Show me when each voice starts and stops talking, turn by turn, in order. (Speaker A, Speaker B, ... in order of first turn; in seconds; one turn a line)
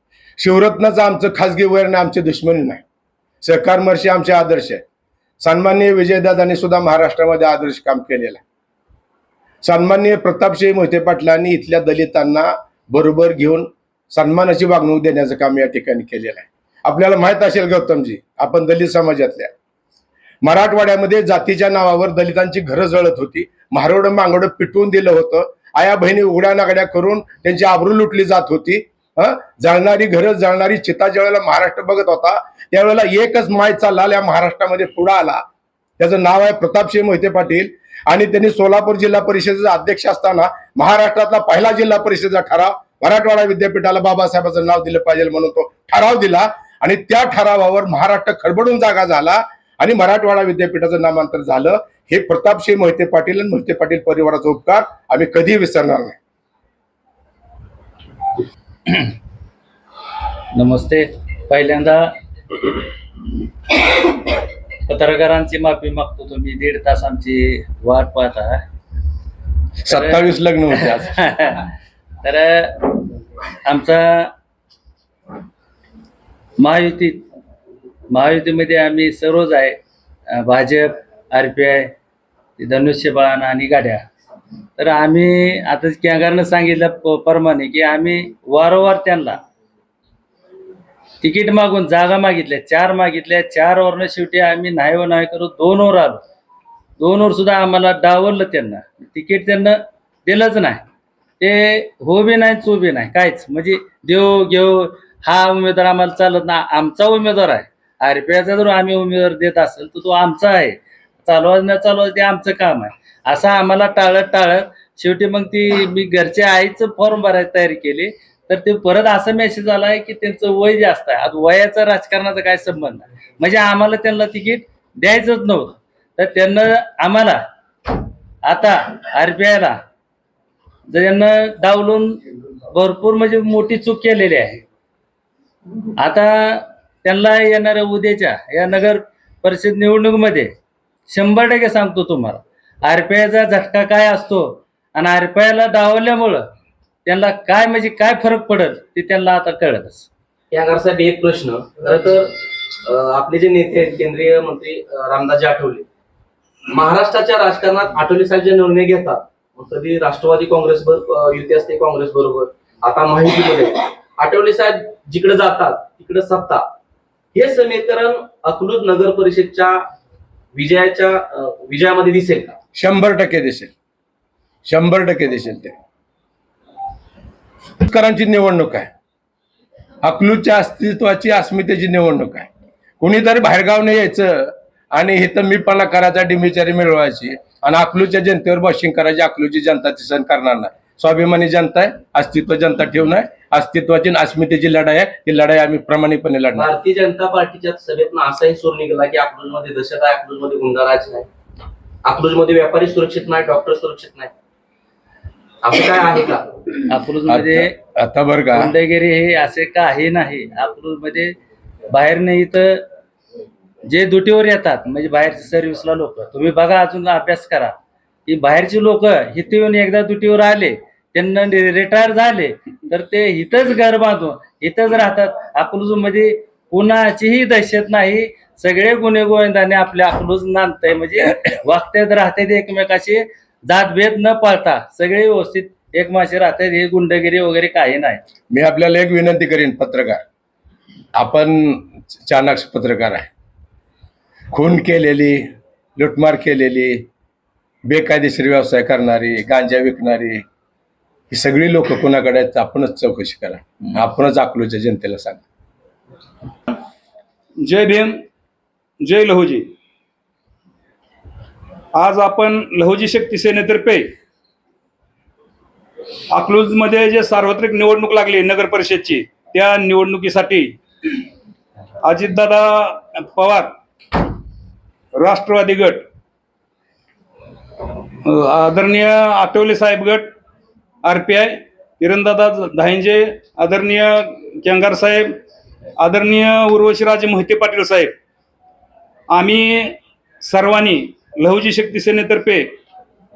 Speaker A: 0.4-2.8
Speaker A: 3.4-4.8
Speaker A: 5.4-8.4
Speaker A: 9.6-19.5
Speaker A: 20.4-35.4
Speaker A: 36.0-56.1
Speaker B: 60.5-62.1
Speaker B: 64.9-68.6
Speaker A: 69.8-71.2
Speaker B: 69.9-71.7
Speaker B: 72.2-73.0
Speaker B: 73.6-74.3
Speaker B: 76.6-77.2
Speaker B: 78.1-79.8
Speaker B: 80.3-81.9
Speaker B: 82.6-84.1
Speaker B: 84.8-89.4
Speaker B: 91.2-96.2
Speaker B: 97.0-100.8
Speaker B: 101.4-127.4
Speaker B: 128.4-129.8
Speaker B: 130.9-134.6
Speaker B: 136.0-140.5
Speaker B: 141.1-146.4
Speaker B: 147.0-150.1
Speaker C: 150.5-152.3
Speaker C: 152.9-155.8
Speaker C: 156.7-166.6
Speaker C: 167.3-169.8
Speaker C: 170.5-172.5
Speaker A: 172.8-173.7
Speaker A: 174.7-175.7
Speaker A: 177.8-178.9
Speaker A: 180.0-182.5
Speaker A: 183.0-196.7
Speaker C: 196.6-201.2
Speaker C: 202.1-204.3
Speaker C: 205.6-206.4
Speaker B: 206.9-207.7
Speaker A: 207.3-208.7
Speaker B: 208.5-211.3
Speaker B: 211.9-212.8
Speaker B: 213.9-217.7
Speaker B: 218.2-238.2
Speaker A: 238.5-240.2
Speaker A: 241.1-243.3
Speaker A: 244.5-245.4
Speaker A: 246.0-247.1
Speaker A: 247.8-250.4
Speaker A: 251.3-255.4
Speaker D: 257.6-258.1
Speaker D: 259.0-259.6
Speaker D: 261.9-264.1
Speaker D: 266.3-270.8
Speaker D: 272.0-273.7
Speaker D: 275.1-276.0
Speaker D: 278.2-280.3
Speaker D: 281.0-285.4
Speaker D: 286.0-288.1
Speaker D: 289.3-292.7